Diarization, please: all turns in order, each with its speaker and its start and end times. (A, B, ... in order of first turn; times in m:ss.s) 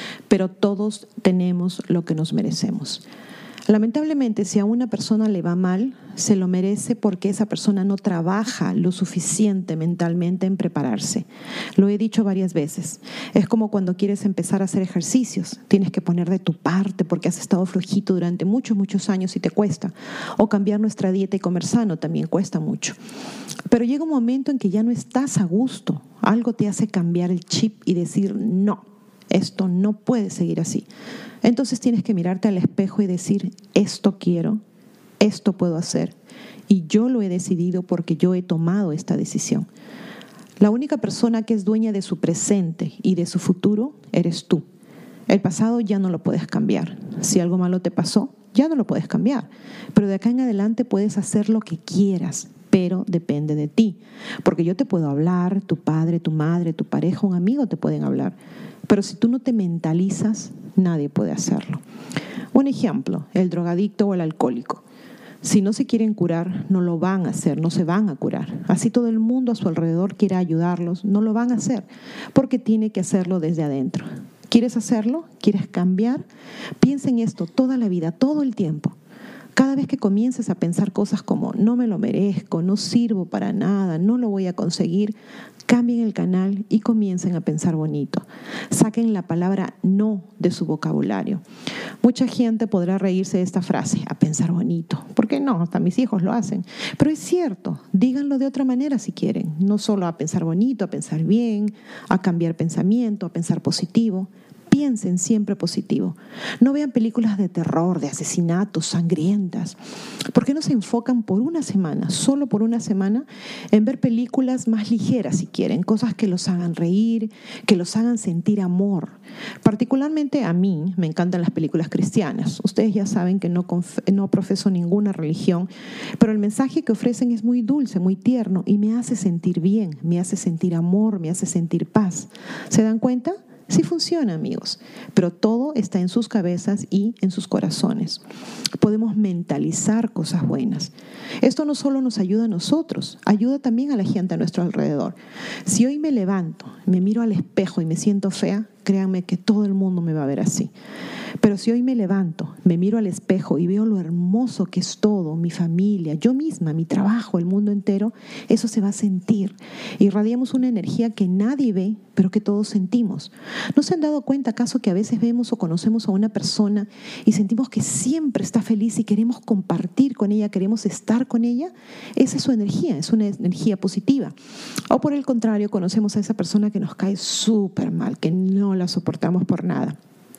0:00.3-0:03.0 A
0:03.7-0:23.0 A
0:23.7-0:30.9 A
0:31.4-0:34.6 A
0:35.2-0:36.1 A
0:36.7-0:39.7 A
0:40.6-0:44.6 A
0:45.3-0:58.4 A
0:58.9-1:01.8 A
1:02.5-1:04.8 A
1:05.4-1:16.2 A
1:16.8-1:19.0 A
1:19.5-1:25.1 A
1:25.7-1:31.4 A
1:32.0-1:49.8 A
1:50.3-2:18.2 A
2:18.8-2:30.7 A
2:31.4-2:54.3 A
2:54.9-3:00.0 A